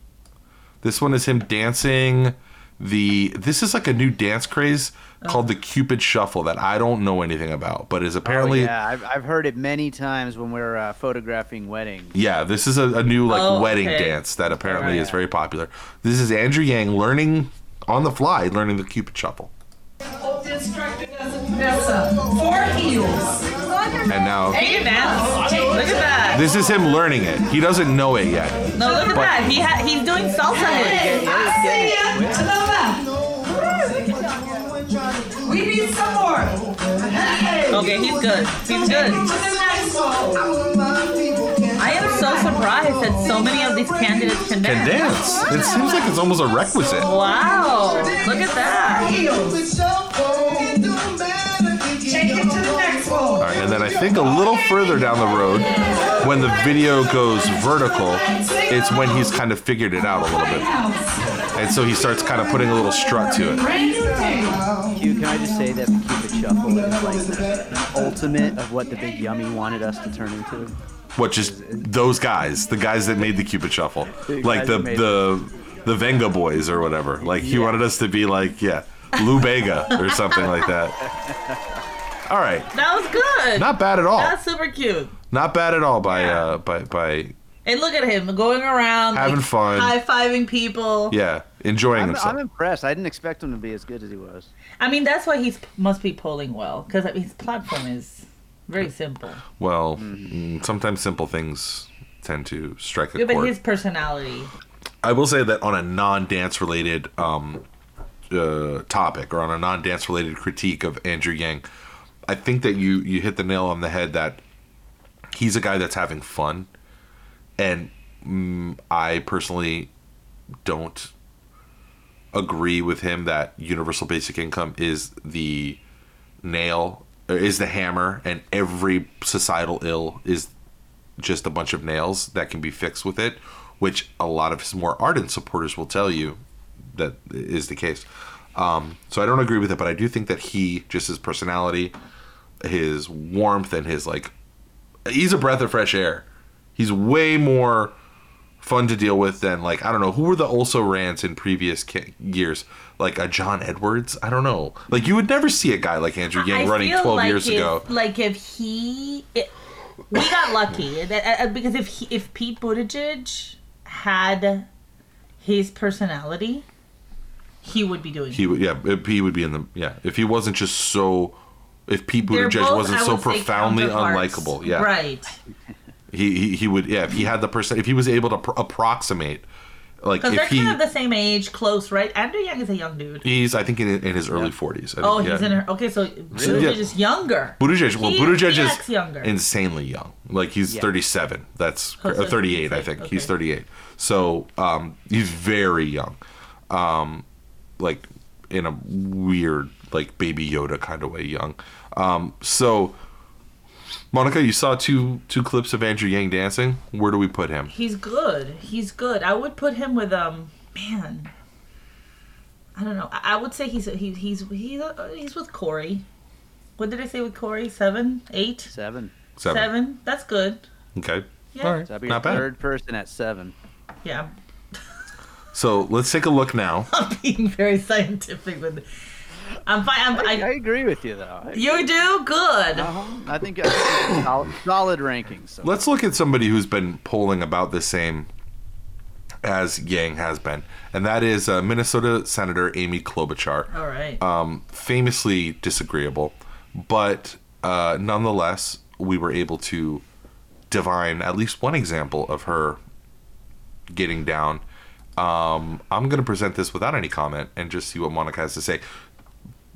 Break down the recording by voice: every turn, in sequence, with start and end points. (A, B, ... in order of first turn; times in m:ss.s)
0:00.8-0:08.7 A
0:05.2-0:05.5 B
0:08.2-0:12.1 C
0:12.1-0:19.5 A
0:13.3-0:15.0 B
0:14.6-0:15.2 C
0:20.2-0:26.7 D
0:24.1-0:24.6 A
0:24.5-0:26.4 B
0:26.3-0:29.5 A
0:28.7-0:31.4 B
0:28.8-0:29.4 D
0:30.4-0:56.8 D
0:30.6-0:32.5 C
0:37.7-0:39.3 B
0:41.8-0:45.1 B
0:44.6-0:47.1 A
0:47.0-0:49.1 B
0:53.4-1:00.7 A
0:57.6-0:59.3 D
1:00.3-1:01.2 D
1:01.5-1:03.7 A
1:03.5-1:05.4 D
1:04.9-1:10.8 C
1:06.8-1:07.7 D
1:11.2-1:21.0 A
1:11.4-1:11.9 C
1:14.2-1:15.3 C
1:17.2-1:17.8 C
1:19.9-1:20.4 B
1:21.0-1:21.6 C
1:22.3-1:22.7 A
1:22.7-1:25.1 B
1:23.5-1:24.4 A
1:25.3-1:27.3 A
1:26.0-1:26.5 B
1:27.6-1:31.2 B
1:29.1-1:30.0 A
1:31.1-1:32.4 A
1:31.9-1:34.5 C
1:34.8-1:39.4 B
1:39.6-1:43.5 A
1:40.0-1:40.3 C
1:43.1-1:44.5 B
1:45.0-1:47.6 A
1:48.3-1:51.6 A
1:52.3-1:54.4 A
1:55.3-1:56.7 A
1:57.6-1:59.9 A
2:00.6-2:01.1 A
2:02.3-2:05.8 A
2:06.4-2:10.5 A
2:11.2-2:16.4 A
2:16.9-2:22.0 A
2:22.6-2:24.3 A
2:25.0-2:26.2 A
2:26.8-2:27.9 A
2:28.6-2:37.8 A
2:36.3-2:39.5 B
2:40.1-2:44.7 B
2:45.4-2:46.6 B
2:47.6-2:48.5 B
2:48.3-2:54.9 A
2:52.2-2:55.3 B
2:56.1-2:59.4 A
3:00.0-3:00.8 A
3:00.2-3:03.2 B
3:03.2-3:05.6 A
3:05.0-3:09.3 B
3:06.3-3:06.8 C
3:06.4-3:06.9 A
3:07.6-3:16.2 A
3:12.0-3:13.3 B
3:16.7-3:17.2 A
3:17.8-3:23.0 A
3:24.1-3:27.7 A
3:27.7-3:31.3 B
3:32.8-3:36.0 B
3:36.8-3:38.7 B
3:38.7-3:39.1 C
3:39.4-3:39.7 A
3:39.4-3:40.6 B
3:40.9-3:42.5 A
3:41.5-3:42.4 B
3:41.8-3:43.5 C
3:44.0-3:44.3 B
3:45.5-3:46.9 A
3:46.9-3:48.8 B
3:49.6-3:50.5 B
3:50.1-3:51.9 C
3:51.5-3:52.9 B
3:52.7-3:55.8 C
3:55.6-3:58.3 A
3:59.4-4:10.0 A
4:03.7-4:04.2 B
4:10.7-4:12.8 A
4:13.9-4:14.6 A
4:15.2-4:18.8 A